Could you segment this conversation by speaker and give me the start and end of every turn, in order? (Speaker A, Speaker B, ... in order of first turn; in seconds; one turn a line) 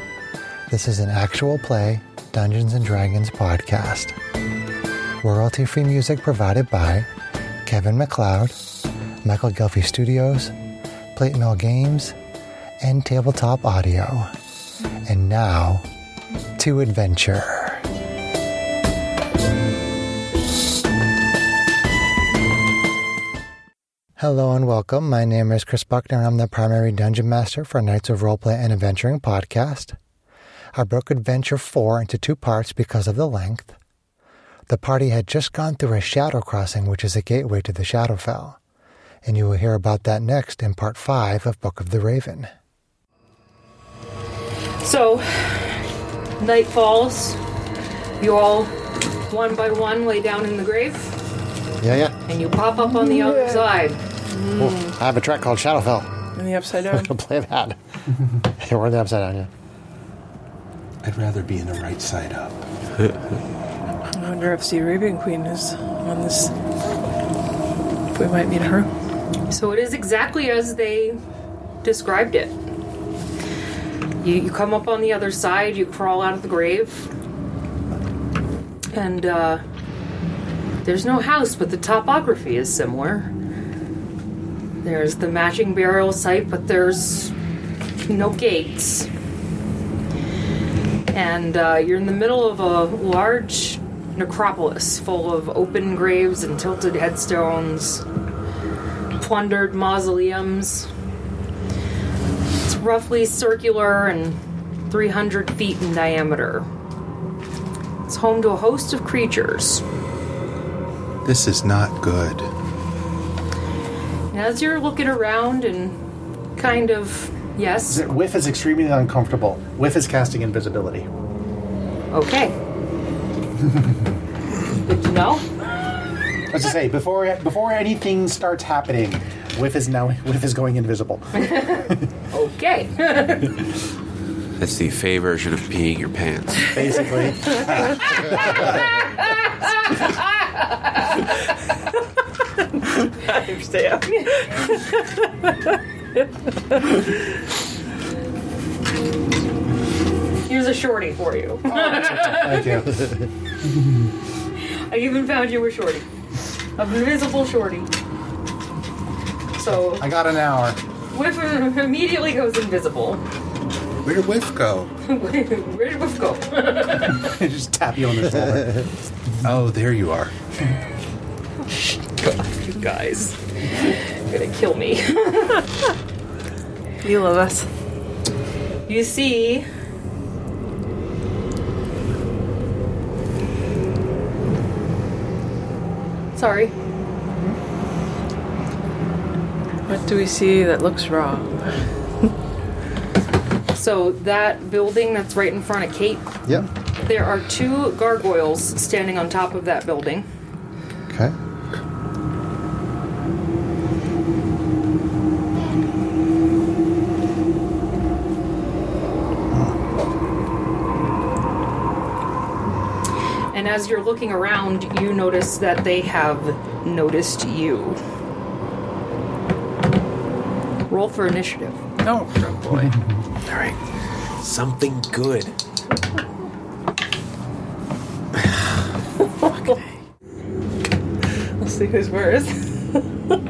Speaker A: 0.7-4.2
Speaker A: 5.2-7.1
Speaker A: 7.6-8.6
Speaker A: 9.2-10.5
Speaker A: 11.1-12.2
Speaker A: 12.8-14.3
Speaker A: 15.1-15.8
Speaker A: 16.6-17.8
Speaker A: 24.2-29.9
Speaker A: 30.7-33.8
Speaker A: 34.7-38.6
Speaker A: 39.2-42.5
Speaker B: 44.8-45.8
Speaker B: 46.4-47.4
Speaker B: 48.2-48.7
Speaker B: 49.3-51.2
Speaker A: 51.8-52.1
Speaker B: 52.3-54.0
Speaker A: 53.0-53.6
Speaker C: 54.3-55.0
Speaker A: 54.6-56.1
Speaker C: 56.4-57.1
Speaker A: 56.9-57.8
Speaker A: 58.6-59.5
Speaker D: 61.0-62.6
Speaker C: 64.1-66.5
Speaker C: 68.1-68.9
Speaker B: 69.5-71.2
Speaker B: 71.8-72.5
Speaker B: 74.2-77.1
Speaker B: 78.9-79.6
Speaker B: 80.8-83.3
Speaker B: 84.8-87.3
Speaker B: 88.1-89.1
Speaker B: 91.1-98.0
Speaker B: 99.2-100.9
Speaker B: 102.6-104.4
Speaker B: 104.9-106.7
Speaker B: 108.1-109.8
Speaker D: 111.2-112.5
Speaker B: 114.3-116.0
Speaker B: 116.6-118.0
Speaker E: 117.9-121.1
Speaker B: 122.1-122.5
Speaker B: 124.8-125.4
Speaker E: 126.5-132.1
Speaker B: 131.3-133.6
Speaker F: 134.6-137.1
Speaker E: 136.7-138.7
Speaker B: 139.2-141.2
Speaker C: 142.7-147.0
Speaker B: 150.5-152.9
Speaker E: 151.7-153.0
Speaker E: 153.6-154.1
Speaker B: 154.9-156.1
Speaker B: 156.8-157.9
Speaker B: 159.6-160.1
Speaker E: 159.7-160.8
Speaker B: 161.1-163.2
Speaker D: 164.0-164.9
Speaker B: 165.1-167.3
Speaker E: 167.1-168.9
Speaker D: 169.4-170.3
Speaker B: 171.7-175.6
Speaker C: 177.0-177.7
Speaker B: 178.9-179.7
Speaker B: 186.3-186.7
Speaker C: 189.9-191.5
Speaker B: 193.7-196.3
Speaker B: 197.0-200.3
Speaker A: 201.1-201.3
Speaker B: 213.5-218.0
Speaker B: 220.9-221.8
Speaker F: 223.4-223.8
Speaker F: 224.4-225.5
Speaker C: 229.2-229.8
Speaker C: 231.6-233.4